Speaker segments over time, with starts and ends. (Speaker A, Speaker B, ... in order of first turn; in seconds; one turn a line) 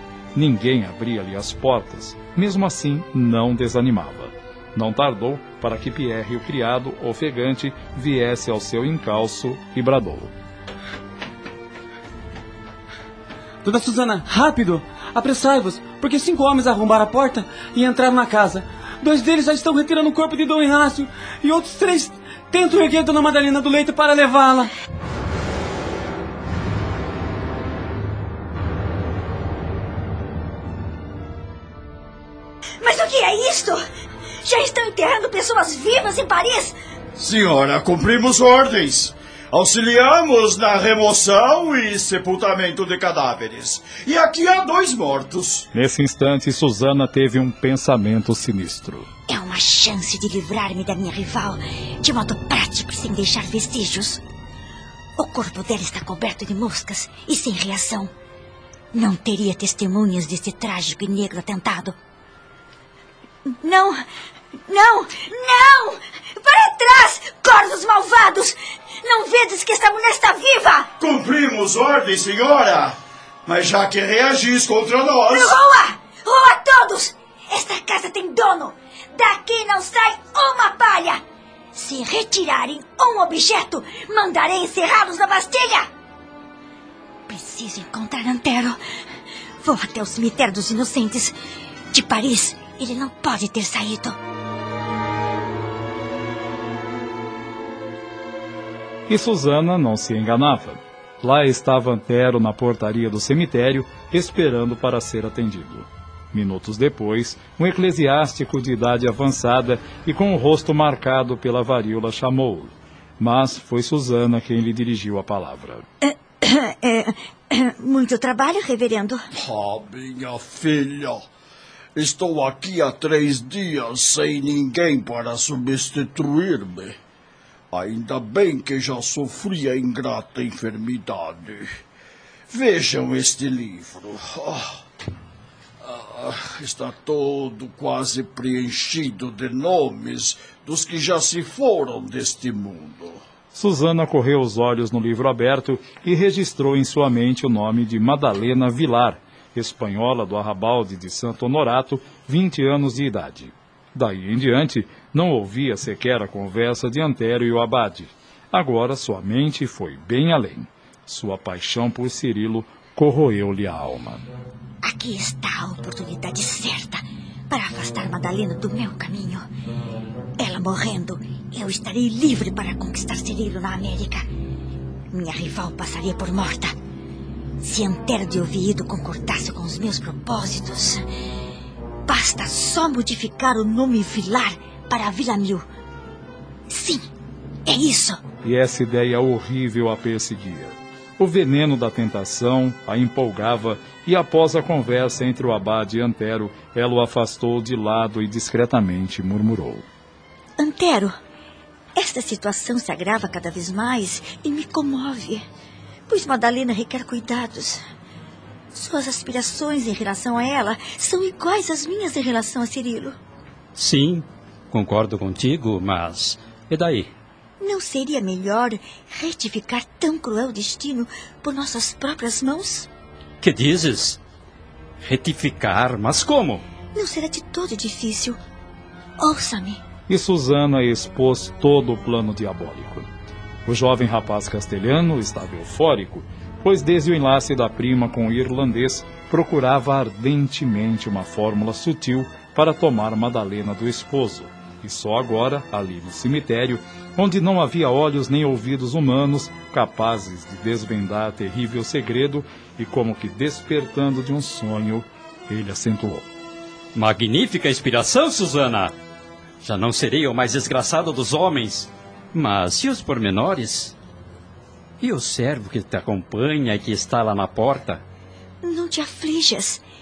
Speaker A: 0.3-10.3
Speaker B: 13.6-24.7
Speaker C: 32.8-33.8
Speaker C: 34.4-36.8
Speaker D: 37.2-45.7
Speaker A: 45.7-49.1
Speaker C: 49.3-54.2
Speaker C: 55.2-58.1
Speaker C: 58.9-62.0
Speaker C: 63.5-64.0
Speaker C: 64.7-70.9
Speaker D: 71.0-75.6
Speaker C: 75.3-81.2
Speaker C: 81.8-85.9
Speaker C: 87.3-88.8
Speaker C: 89.6-91.4
Speaker C: 91.9-94.2
Speaker A: 99.1-115.8
Speaker C: 116.0-119.2
Speaker D: 119.3-121.2
Speaker D: 122.0-127.0
Speaker D: 127.7-131.8
Speaker D: 132.5-134.8
Speaker D: 135.8-143.2
Speaker A: 143.5-164.2
Speaker C: 164.8-169.4
Speaker C: 170.4-174.2
Speaker C: 175.1-176.7
Speaker C: 177.6-181.0
Speaker C: 182.1-185.7
Speaker C: 186.7-187.1
Speaker C: 187.7-188.2
Speaker A: 188.4-199.8
Speaker C: 200.6-201.1
Speaker C: 201.9-205.4
Speaker C: 206.1-207.8
Speaker C: 208.7-213.2
Speaker E: 213.8-217.1
Speaker C: 217.6-222.9
Speaker E: 223.4-224.2
Speaker E: 225.0-226.6
Speaker C: 226.9-228.4
Speaker C: 229.2-229.8
Speaker A: 230.1-233.1
Speaker A: 233.7-256.3
Speaker E: 256.9-258.9
Speaker E: 259.6-263.9
Speaker E: 265.0-268.0
Speaker C: 268.6-269.8